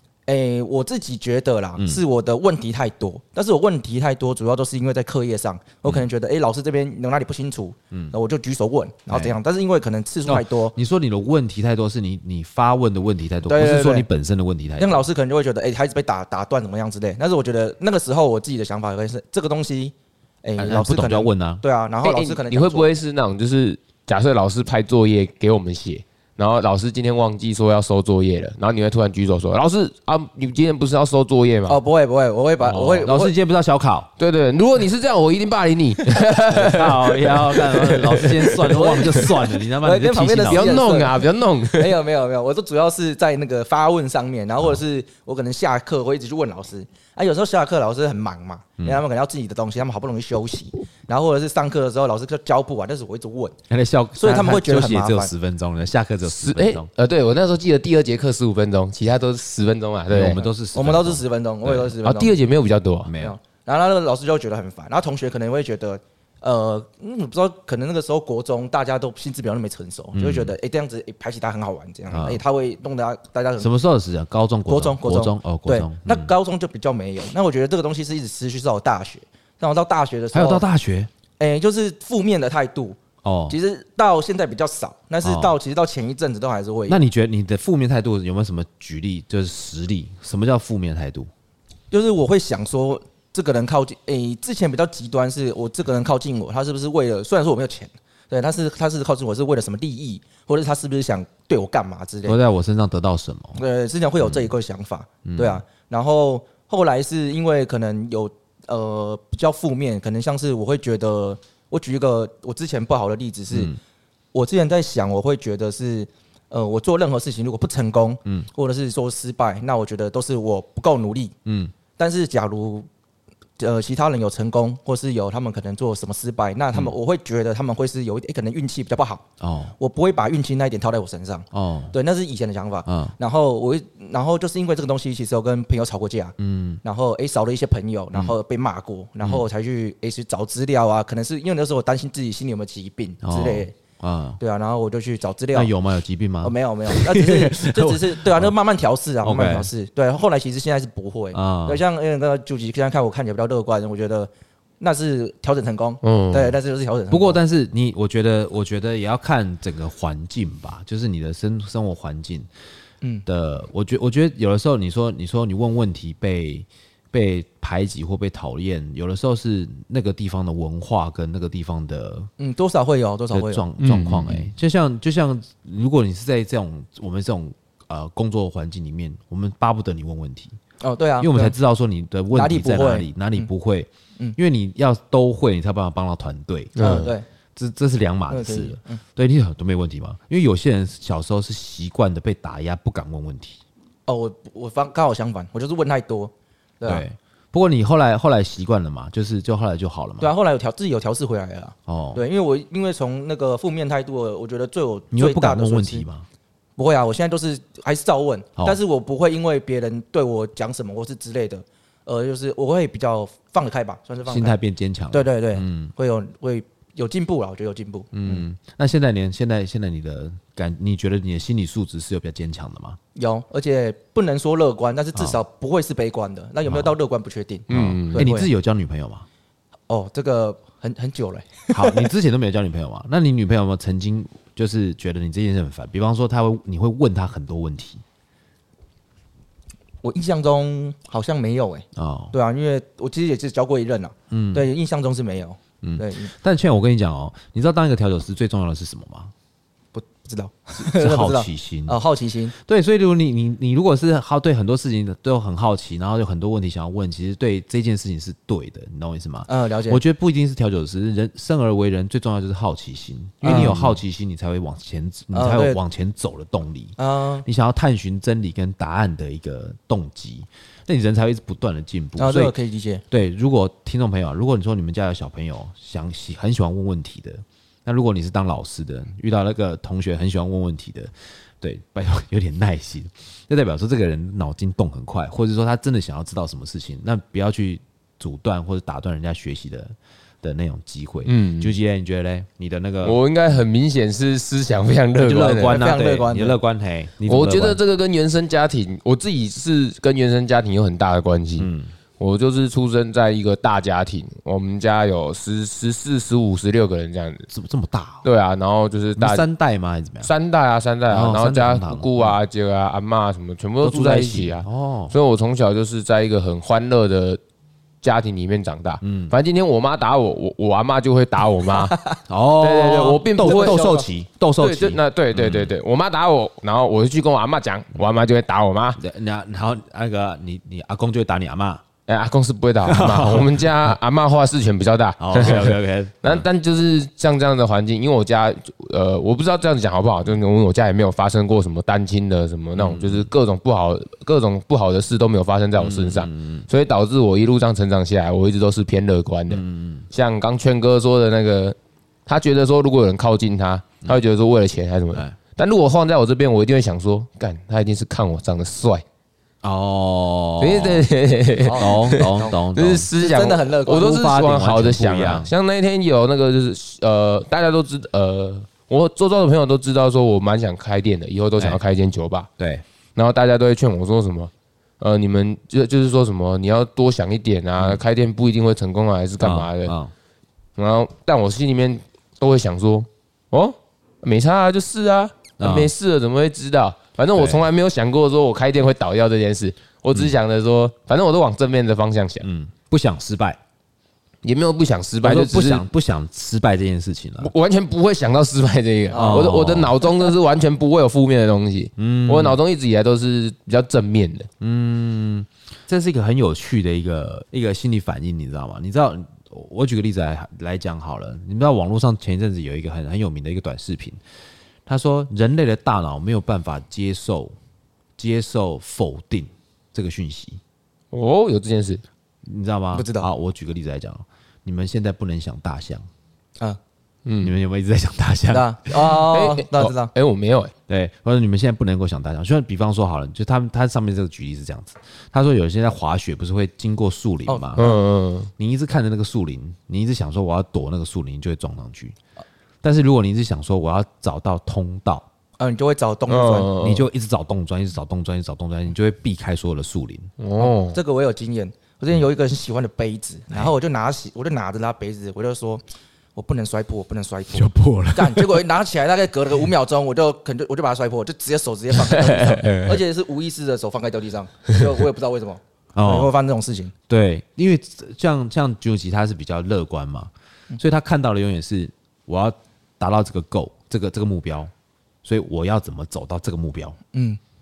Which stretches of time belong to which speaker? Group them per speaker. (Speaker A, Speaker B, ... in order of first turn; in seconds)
Speaker A: 0.3-10.8, 13.5-14.1, 14.8-22.9, 31.7-33.3, 38.6-53.6, 54.2-55.3, 60.7-62.4, 63.2-73.7, 74.7-80.7, 81.4-83.0, 83.5-87.0, 91.9-102.4, 103.6-113.7, 114.3-121.3, 122.0-122.9, 123.6-129.3, 129.8-143.7, 144.4-145.7, 146.4-157.4, 172.4-173.6, 180.8-181.6, 182.3-183.5, 186.8-187.3, 188.3-189.0, 194.1-197.1, 200.2-206.1, 206.8-214.6, 215.1-218.4, 223.2-228.5, 229.9-232.1, 240.0-246.3, 249.9-252.5, 259.5-260.0, 263.4-263.8, 265.3-265.8, 267.0-267.4, 272.2-273.0, 295.7-296.6, 321.9-322.2, 323.4-324.1, 361.6-362.5, 363.2-364.1, 399.1-399.6, 422.9-423.3, 428.5-430.1, 437.5-438.0, 445.6-446.7, 450.6-455.8, 456.4-466.9, 477.1-477.4
Speaker B: 10.3-15.1, 20.6-21.6, 33.0-34.1, 36.4-40.9, 53.7-56.9, 60.1-62.0, 63.0-63.4, 70.1-70.5, 72.1-72.4, 73.6-76.3, 80.3-81.1, 83.2-83.6, 85.2-85.6, 86.9-91.3, 102.2-103.6, 104.2-104.5, 105.2-105.6, 113.5-113.8, 121.5-121.7, 129.4-129.8, 131.5-131.9, 132.9-133.2, 136.4-136.8, 143.2-144.4, 145.5-148.5, 149.2-149.7, 151.3-151.8, 157.1-162.5, 163.3-172.3, 173.3-180.6, 181.2-193.6, 196.8-200.3, 201.9-202.2, 205.1-206.3, 214.3-215.9, 218.1-223.0, 226.7-226.9, 227.7-229.3, 231.7-238.0, 241.9-242.3, 244.3-244.7, 245.8-249.3, 250.8-252.0, 252.5-272.6, 273.1-293.2, 295.2-297.8, 301.6-301.9, 307.5-308.3, 309.2-310.3, 311.1-312.4, 313.8-315.1, 319.0-319.4, 322.3-325.7, 329.0-331.8, 332.9-333.7, 335.2-336.5, 342.8-343.3, 345.8-346.7, 349.5-350.1, 359.6-361.1, 361.8-363.1, 363.9-365.5, 372.6-372.9, 377.8-378.0, 379.4-380.1, 385.6-385.9, 387.4-387.7, 392.4-393.6, 395.2-397.5, 399.1-400.0, 402.0-402.6, 404.6-414.2, 414.9-417.6, 418.2-420.6, 422.4-426.1, 427.4-429.2, 430.9-437.9, 438.6-442.2, 442.8-445.3, 446.8-450.3, 457.5-458.6, 465.9-466.3, 467.1-474.7, 475.2-477.0
Speaker C: 22.0-31.8, 32.6-33.1, 34.2-38.9, 40.4-42.0, 56.2-60.4, 62.0-63.1, 156.0-156.5, 173.8-174.5, 186.8-187.1, 227.7-228.3, 291.3-291.8, 293.0-295.8, 297.3-307.5, 308.2-309.4, 310.2-317.4, 318.0-322.0, 322.6-323.9, 324.6-329.0, 332.1-359.0, 360.6-372.5, 373.2-379.9, 380.8-392.5, 394.4-395.8, 397.4-404.5, 421.1-422.0, 427.3-427.5, 429.3-430.7, 437.8-438.5, 446.3-447.1, 450.4-451.0, 462.6-462.9